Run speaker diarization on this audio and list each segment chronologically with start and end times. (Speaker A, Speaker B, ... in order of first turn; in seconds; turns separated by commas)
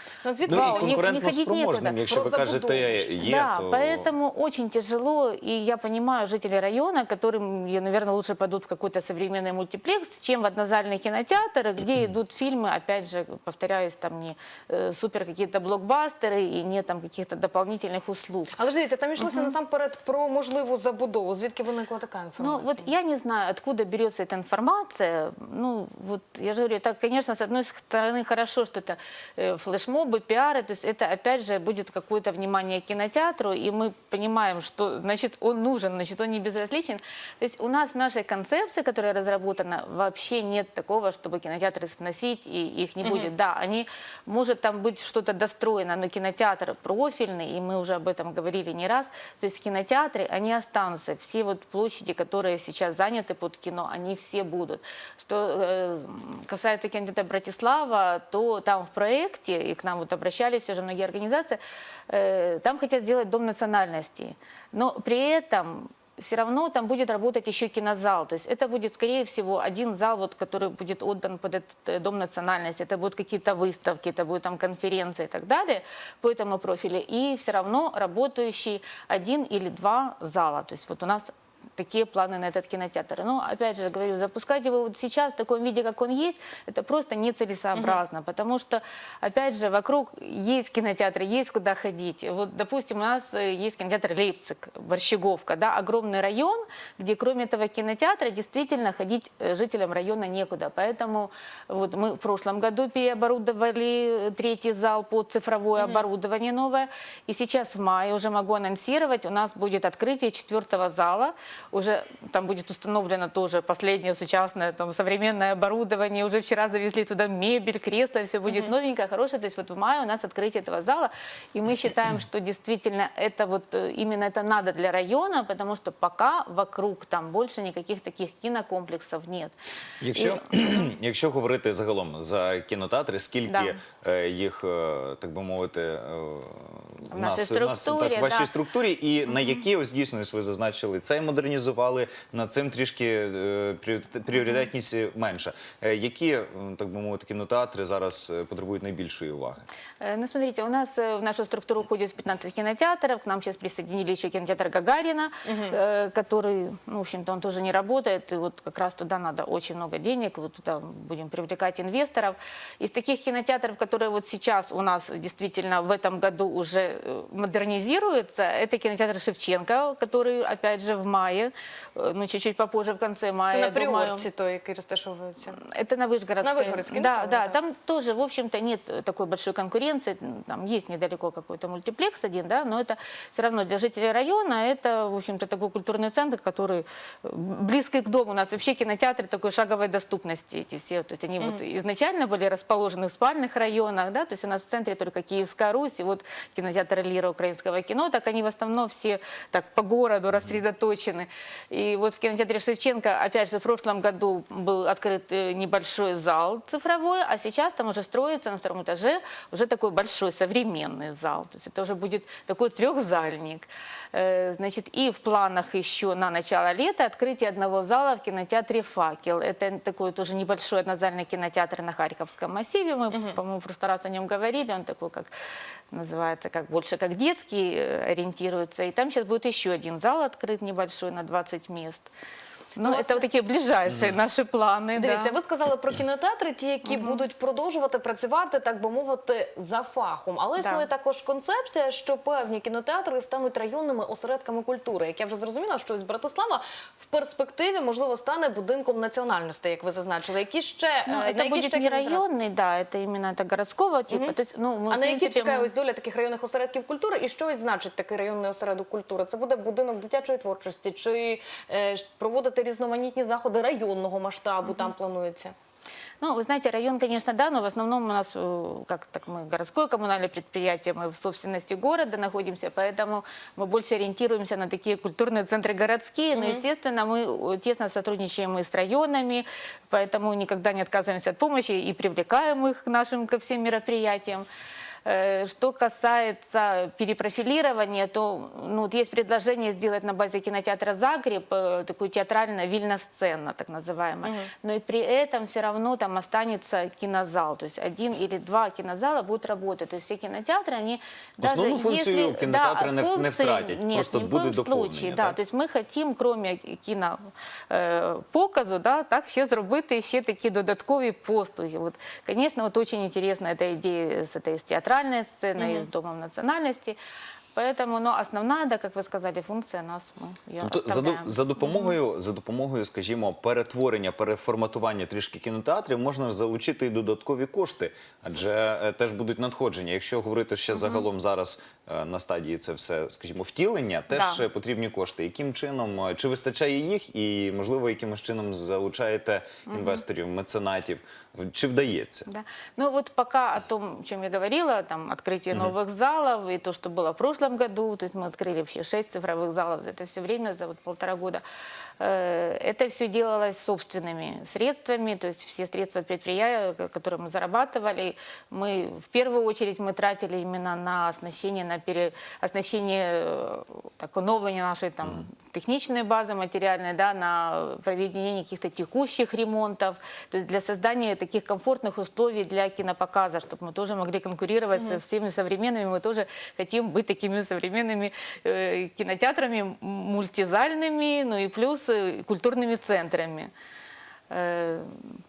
Speaker A: 0.2-1.0, Speaker B: 0.5-4.1, Speaker C: 0.5-2.0, Speaker A: 2.1-3.1, Speaker C: 3.2-18.5, Speaker A: 18.6-22.9, Speaker C: 19.2-19.5, Speaker C: 22.4-61.6, Speaker A: 43.0-43.3, Speaker C: 62.1-129.5, Speaker A: 87.7-88.0, Speaker A: 105.8-106.0, Speaker B: 130.0-149.6, Speaker C: 130.1-130.4, Speaker C: 133.5-133.8, Speaker C: 137.1-138.5, Speaker C: 150.0-174.2, Speaker A: 155.4-155.8, Speaker A: 173.5-175.6, Speaker C: 175.6-225.3, Speaker A: 176.4-177.6, Speaker C: 225.9-232.1, Speaker C: 232.8-235.3, Speaker A: 232.8-233.2, Speaker A: 235.0-252.2, Speaker C: 236.9-237.2, Speaker C: 240.6-240.8, Speaker C: 251.1-255.7, Speaker A: 254.1-254.3, Speaker A: 254.9-265.5, Speaker C: 266.2-284.4, Speaker A: 276.3-276.6, Speaker C: 285.0-317.0, Speaker A: 294.2-294.5, Speaker B: 301.4-305.4, Speaker A: 315.6-315.9, Speaker C: 317.5-321.4, Speaker B: 320.6-342.3, Speaker C: 330.7-331.0, Speaker C: 334.1-334.4, Speaker C: 339.7-340.0, Speaker C: 342.3-351.4, Speaker C: 352.0-383.5, Speaker C: 384.3-385.1